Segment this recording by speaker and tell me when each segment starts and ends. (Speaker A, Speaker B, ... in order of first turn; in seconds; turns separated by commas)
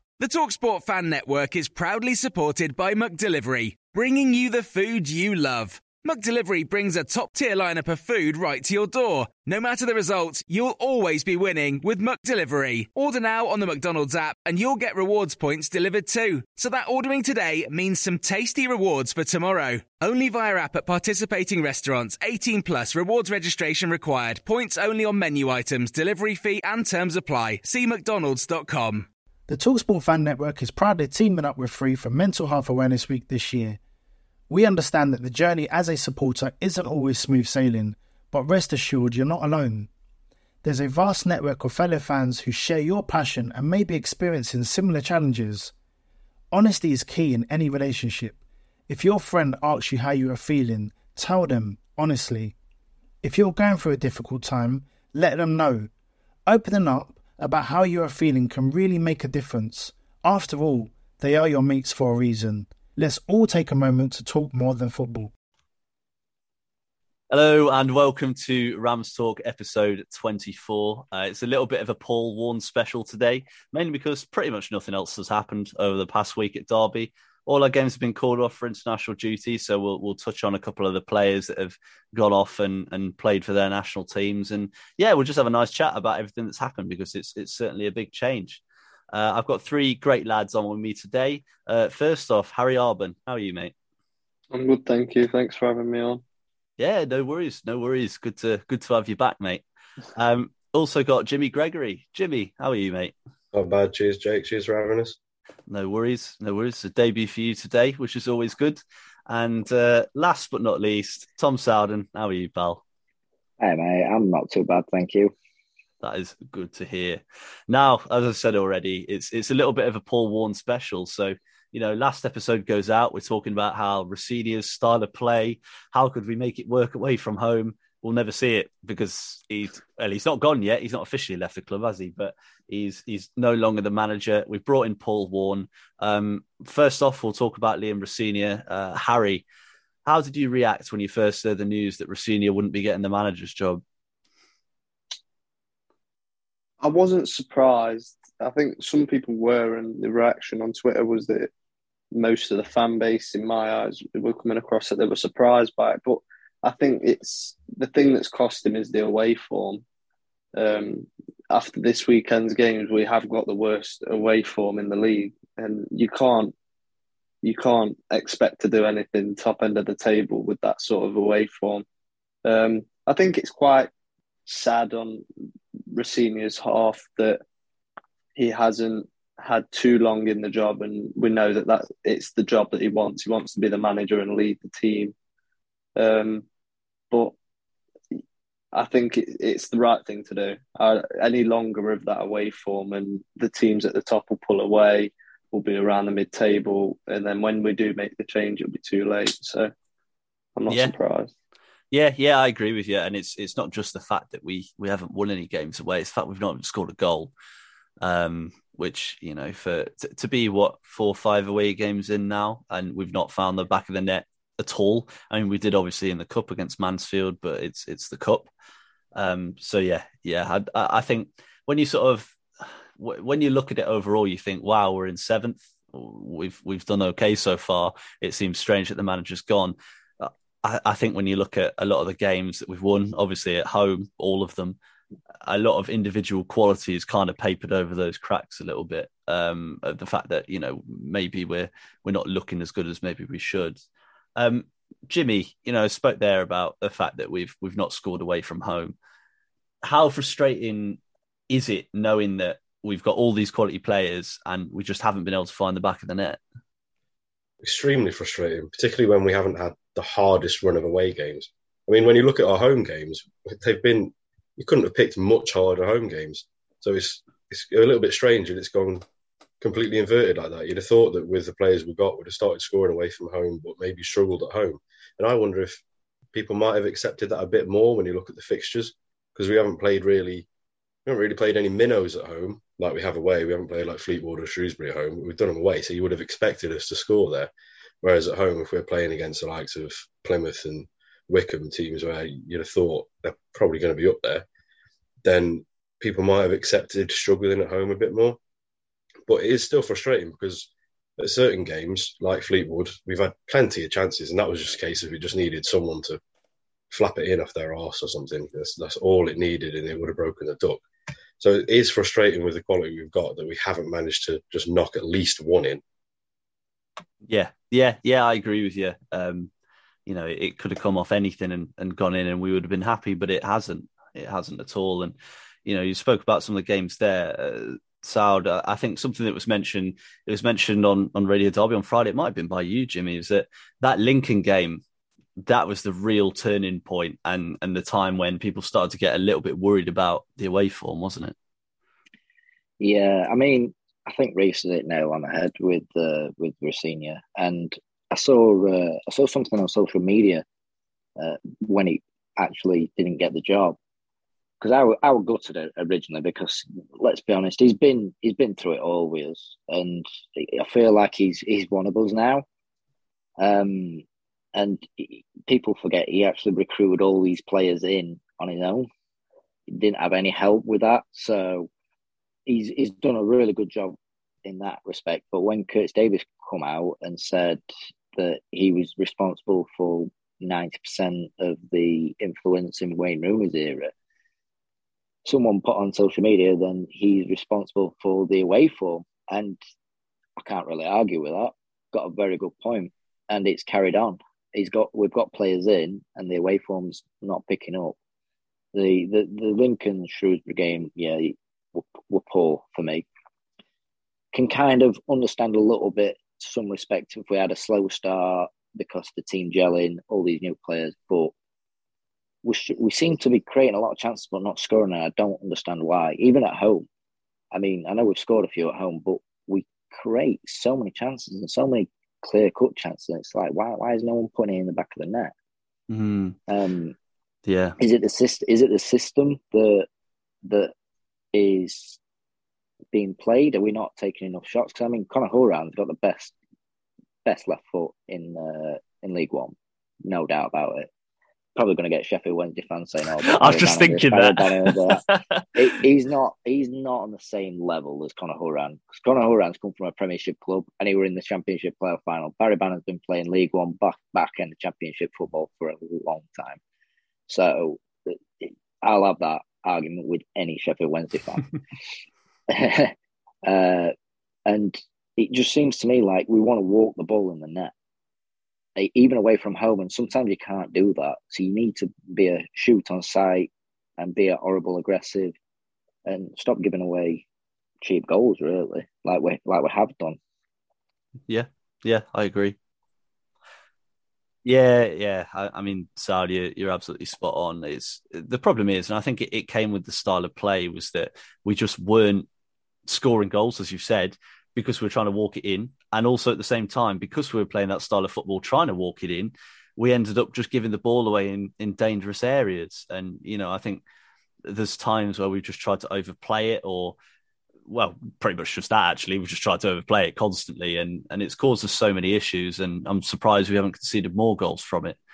Speaker A: 0.2-29.1, Speaker B: 29.5-33.8, Speaker B: 34.5-39.9, Speaker B: 40.6-45.7, Speaker B: 46.5-48.4, Speaker B: 48.9-52.6, Speaker B: 53.2-55.9, Speaker B: 56.5-65.3, Speaker C: 67.3-93.7, Speaker D: 94.5-96.2, Speaker C: 96.8-99.6, Speaker C: 100.2-103.2, Speaker E: 103.5-105.2, Speaker C: 105.7-112.8, Speaker F: 113.6-115.3, Speaker C: 116.0-139.5, Speaker C: 140.1-143.8, Speaker D: 146.8-151.5, Speaker D: 152.1-159.8, Speaker D: 160.6-166.5, Speaker D: 167.4-171.8, Speaker D: 172.4-173.9, Speaker D: 174.5-175.2, Speaker D: 175.9-177.4, Speaker D: 178.4-185.1, Speaker D: 186.0-186.4, Speaker D: 188.7-199.7, Speaker D: 200.6-201.3, Speaker C: 200.7-200.9, Speaker C: 201.9-207.3, Speaker C: 208.0-218.5, Speaker C: 219.2-234.8, Speaker C: 235.4-243.8, Speaker C: 244.4-249.0, Speaker C: 249.8-256.4, Speaker E: 257.6-269.1, Speaker E: 269.6-275.8, Speaker E: 276.3-280.5, Speaker E: 281.1-287.5, Speaker E: 288.0-294.4, Speaker E: 295.2-298.4, Speaker E: 299.3-306.2, Speaker E: 306.9-310.8, Speaker E: 311.4-315.8, Speaker C: 317.2-319.5, Speaker C: 320.1-334.8, Speaker C: 335.4-341.4, Speaker F: 342.8-350.4, Speaker F: 351.2-353.8, Speaker F: 354.6-362.4, Speaker F: 363.4-368.9, Speaker F: 369.7-371.7, Speaker F: 372.5-377.6, Speaker F: 378.2-383.9, Speaker F: 385.2-389.6, Speaker F: 390.4-398.0, Speaker F: 398.7-403.1, Speaker F: 404.3-411.3, Speaker F: 412.4-416.9, Speaker F: 417.5-425.3, Speaker C: 425.9-426.4, Speaker F: 426.5-427.0, Speaker C: 427.5-427.8, Speaker F: 427.8-429.9, Speaker F: 430.4-430.7, Speaker F: 431.3-432.0, Speaker F: 432.9-436.3, Speaker F: 437.2-440.9, Speaker F: 441.6-456.6, Speaker C: 443.2-445.4, Speaker F: 457.3-461.4, Speaker F: 462.5-462.9, Speaker F: 463.4-463.9, Speaker F: 464.5-467.7, Speaker F: 468.8-475.4, Speaker F: 476.1-477.2, Speaker F: 477.8-480.2, Speaker C: 481.3-482.6, Speaker C: 484.4-492.3, Speaker C: 492.9-503.8, Speaker C: 504.4-507.0, Speaker C: 507.7-515.0